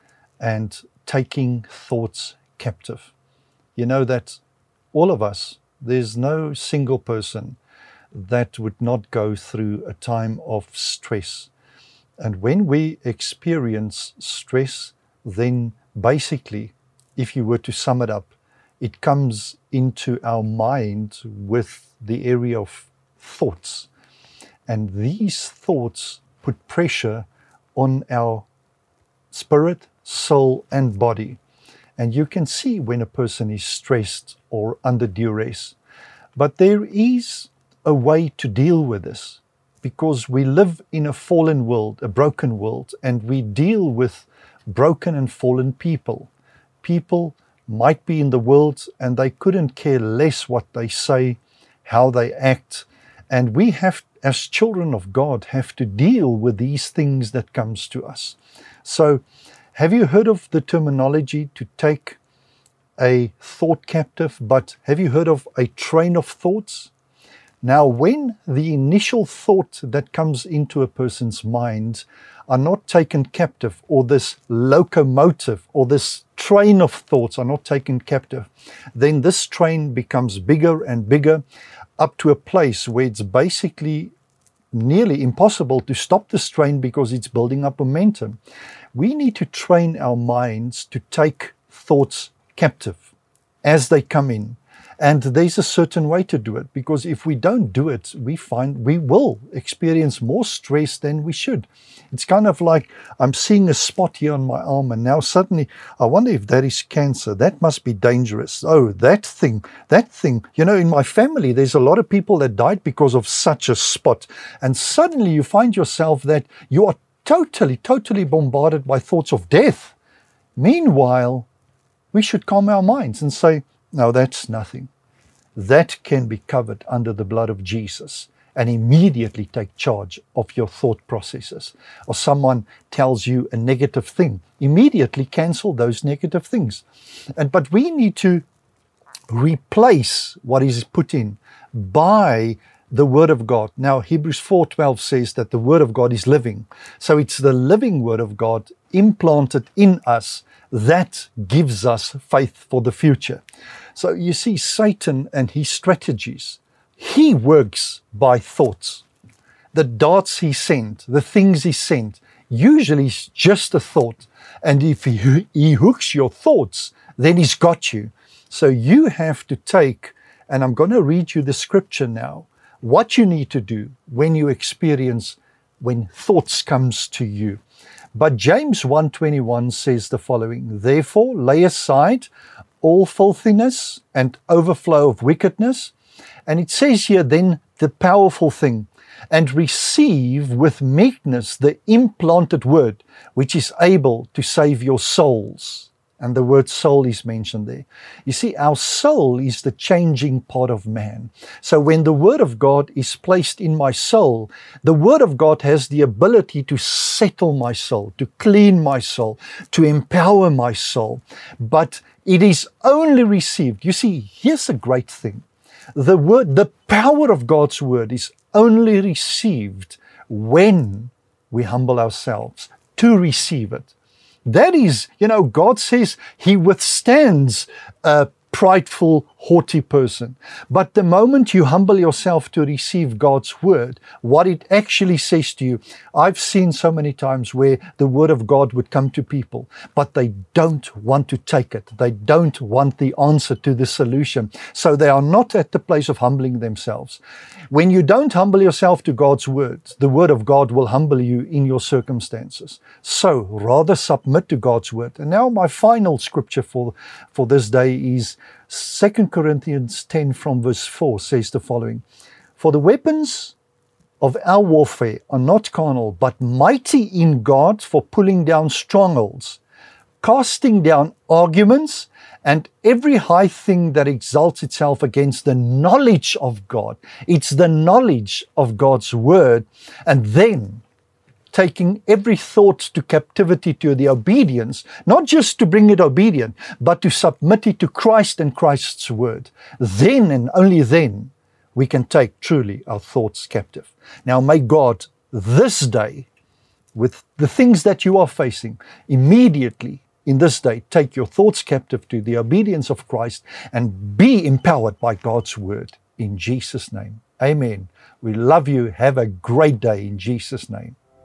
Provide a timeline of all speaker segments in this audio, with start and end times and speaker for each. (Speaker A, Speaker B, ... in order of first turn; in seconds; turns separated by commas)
Speaker A: 0.4-3.1, Speaker A: 3.8-4.4, Speaker A: 4.9-7.6, Speaker A: 8.1-11.5, Speaker A: 12.2-23.9, Speaker A: 24.7-28.5, Speaker A: 29.3-31.4, Speaker A: 32.0-35.8, Speaker A: 36.4-46.3, Speaker A: 46.8-59.2, Speaker A: 59.8-62.2, Speaker A: 63.0-66.9, Speaker A: 67.6-81.4, Speaker A: 82.0-84.1, Speaker A: 84.7-88.4, Speaker A: 88.9-93.1, Speaker A: 93.6-120.0, Speaker A: 120.6-121.5, Speaker A: 122.1-124.9, Speaker A: 125.5-136.8, Speaker A: 137.4-138.4, Speaker A: 139.3-153.4, Speaker A: 154.0-159.1, Speaker A: 159.7-177.6, Speaker A: 178.2-182.3, Speaker A: 182.8-185.9, Speaker A: 186.5-223.9, Speaker A: 224.5-247.2, Speaker A: 247.7-262.0, Speaker A: 262.6-263.6, Speaker A: 264.2-269.6, Speaker A: 270.2-280.8, Speaker A: 281.5-296.3, Speaker A: 296.9-311.0